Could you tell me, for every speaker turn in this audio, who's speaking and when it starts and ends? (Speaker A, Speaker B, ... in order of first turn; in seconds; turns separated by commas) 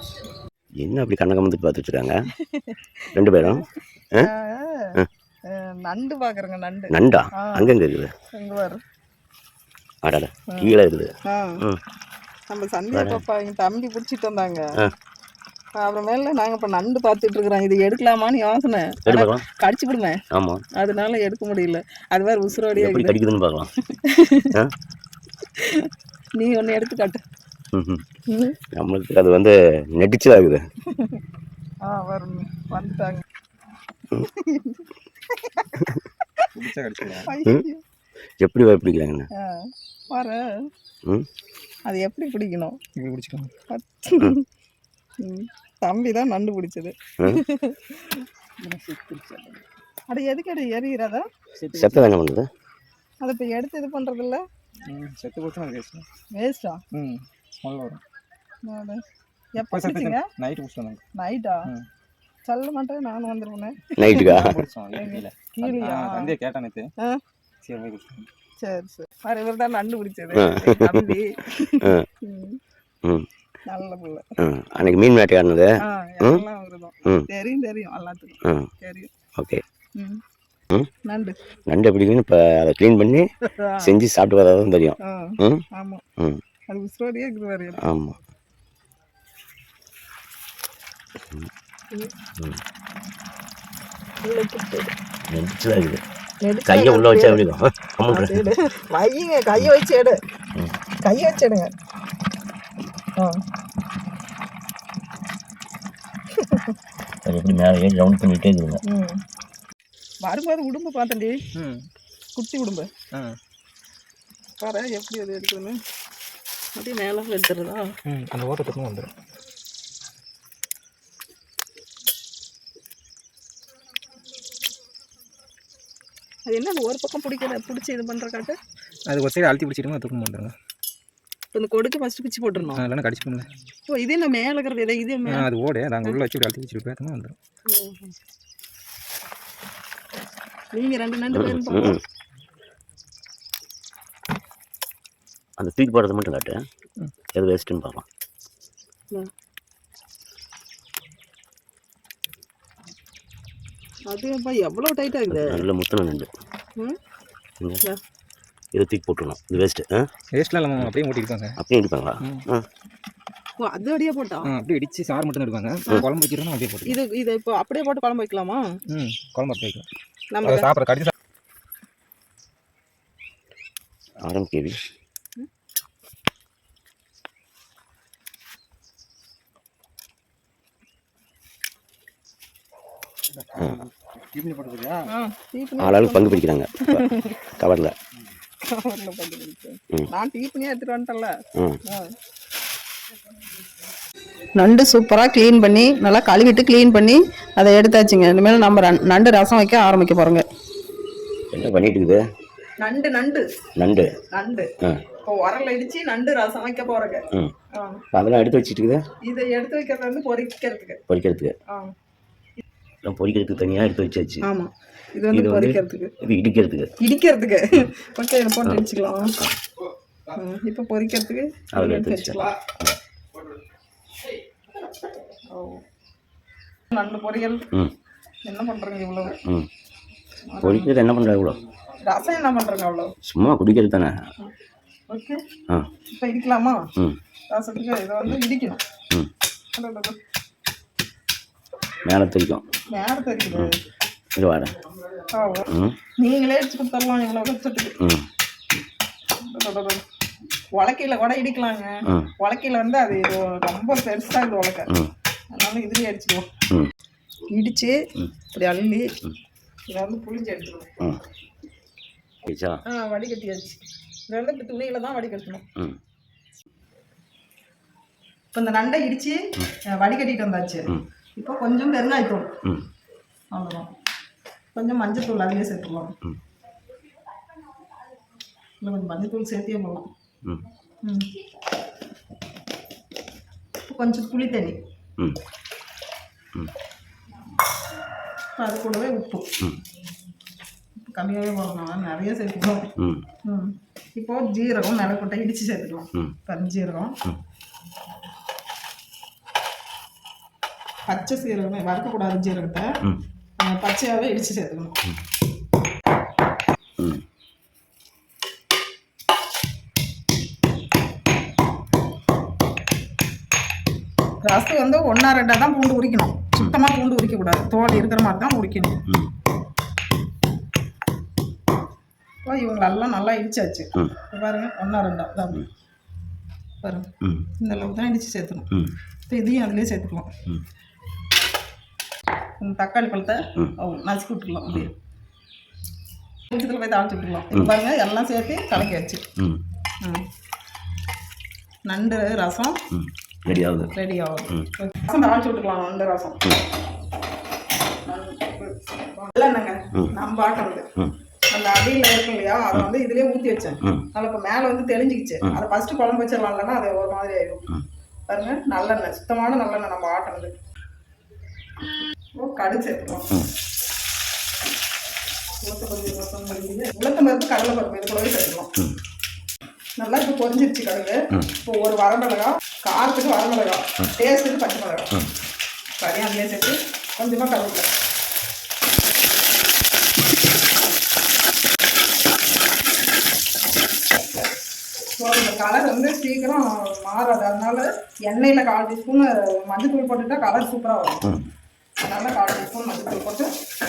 Speaker A: 0.8-2.1, Speaker B: 2.4-3.6, Speaker A: 3.1-4.3, Speaker B: 4.2-5.0, Speaker B: 5.5-7.7, Speaker A: 6.9-8.1, Speaker B: 8.3-8.8, Speaker A: 10.0-11.8, Speaker B: 10.5-11.6, Speaker B: 12.5-14.7, Speaker A: 12.9-13.2, Speaker B: 15.8-20.2, Speaker A: 19.1-19.4, Speaker A: 20.3-20.6, Speaker B: 20.8-23.2, Speaker A: 22.7-23.7, Speaker B: 23.9-24.6, Speaker B: 25.6-27.2, Speaker A: 27.7-28.0, Speaker B: 28.3-28.6, Speaker A: 28.7-30.6, Speaker B: 30.9-31.2, Speaker B: 31.8-33.2, Speaker B: 34.1-35.8, Speaker C: 36.5-37.3, Speaker B: 37.2-37.8, Speaker A: 38.4-39.3, Speaker B: 39.4-40.5, Speaker B: 41.9-42.8, Speaker C: 43.0-43.5, Speaker B: 43.7-44.4, Speaker B: 45.2-48.2, Speaker C: 48.6-49.6, Speaker B: 50.1-51.3, Speaker C: 51.6-52.1, Speaker A: 51.7-52.5, Speaker B: 53.2-54.4, Speaker C: 54.9-56.1, Speaker B: 56.3-56.8, Speaker C: 56.9-58.0, Speaker B: 58.6-59.0, Speaker B: 59.6-60.3, Speaker C: 59.7-61.0, Speaker B: 61.1-61.6, Speaker B: 62.5-66.3, Speaker A: 64.0-64.6, Speaker C: 64.1-66.9, Speaker C: 67.6-68.3, Speaker B: 68.6-72.6, Speaker A: 70.3-71.1, Speaker B: 73.7-74.3, Speaker A: 74.4-75.7, Speaker B: 75.8-79.1, Speaker A: 79.4-79.6, Speaker B: 81.0-81.4, Speaker A: 81.7-83.3, Speaker B: 83.5-83.9, Speaker A: 83.8-85.6, Speaker B: 85.0-86.0, Speaker B: 86.7-87.8, Speaker A: 87.8-88.2, Speaker B: 94.2-94.9, Speaker A: 95.3-96.0, Speaker B: 96.4-97.4, Speaker A: 96.7-98.5, Speaker B: 98.1-100.2, Speaker B: 101.0-101.7, Speaker B: 106.4-106.8, Speaker A: 107.2-108.8, Speaker B: 108.8-109.2, Speaker B: 110.2-111.4, Speaker C: 111.5-111.9, Speaker B: 112.4-112.9, Speaker B: 114.6-115.8, Speaker B: 116.8-117.9, Speaker C: 118.1-119.1, Speaker B: 126.5-128.6, Speaker C: 129.1-130.5, Speaker B: 131.5-132.8, Speaker C: 132.8-133.5, Speaker B: 133.9-135.5, Speaker C: 135.3-137.3, Speaker B: 137.7-138.2, Speaker B: 140.7-142.0, Speaker A: 141.3-142.0, Speaker A: 145.6-146.6, Speaker A: 147.3-148.1, Speaker B: 154.1-155.7, Speaker A: 155.3-156.3, Speaker A: 158.7-160.1, Speaker C: 160.3-161.6, Speaker A: 161.6-162.7, Speaker B: 163.6-164.5, Speaker C: 164.4-166.9, Speaker B: 166.8-168.6, Speaker C: 168.9-169.8, Speaker B: 170.3-170.7, Speaker C: 170.4-171.1, Speaker A: 174.2-174.9, Speaker C: 183.3-185.1, Speaker B: 185.1-187.4, Speaker A: 185.8-187.9, Speaker B: 188.6-191.3, Speaker B: 191.9-192.1, Speaker B: 194.6-200.4, Speaker A: 201.5-202.2, Speaker B: 202.8-203.4, Speaker A: 203.8-204.1, Speaker B: 204.3-204.7, Speaker B: 205.2-208.0, Speaker A: 208.1-209.0, Speaker B: 209.2-211.0, Speaker A: 211.1-211.5, Speaker A: 213.0-214.4, Speaker B: 214.4-216.1, Speaker A: 215.3-216.9, Speaker B: 217.0-219.4, Speaker B: 220.3-222.6, Speaker A: 221.7-222.9, Speaker B: 225.5-225.8, Speaker B: 226.9-227.6, Speaker B: 228.4-229.3, Speaker A: 229.4-229.7, Speaker B: 230.5-230.9, Speaker A: 230.6-231.6, Speaker B: 232.0-233.1, Speaker A: 233.2-234.2, Speaker B: 235.1-235.4, Speaker B: 236.1-236.8, Speaker B: 237.5-238.8, Speaker B: 239.7-240.2, Speaker A: 242.0-242.7, Speaker B: 242.9-243.8, Speaker A: 244.3-244.7, Speaker B: 245.3-248.0, Speaker A: 245.7-246.0, Speaker A: 248.0-248.3, Speaker B: 249.4-250.0, Speaker B: 250.8-254.9, Speaker B: 255.5-256.5, Speaker B: 257.5-259.1, Speaker B: 259.9-260.9, Speaker A: 262.4-262.8, Speaker B: 262.9-265.6, Speaker B: 268.5-272.6, Speaker B: 273.5-273.9, Speaker B: 274.7-276.1, Speaker B: 278.8-280.1, Speaker B: 281.0-281.3, Speaker B: 283.9-284.8, Speaker B: 288.6-289.5, Speaker B: 291.0-292.9, Speaker A: 293.0-293.2, Speaker B: 293.4-297.2, Speaker B: 301.1-302.9, Speaker B: 303.6-304.9, Speaker B: 314.4-319.0, Speaker A: 319.1-319.3, Speaker B: 322.4-325.7, Speaker B: 326.8-328.7, Speaker A: 327.2-327.5, Speaker B: 329.3-330.3, Speaker B: 332.6-334.9, Speaker B: 336.5-339.2, Speaker B: 341.9-342.8, Speaker A: 342.9-343.9, Speaker B: 343.9-346.4, Speaker B: 348.1-350.9, Speaker B: 351.5-357.7, Speaker B: 358.3-360.5, Speaker B: 362.4-363.3, Speaker B: 365.6-368.7, Speaker B: 370.0-375.1, Speaker B: 376.0-377.9, Speaker B: 385.2-391.3, Speaker B: 392.0-393.5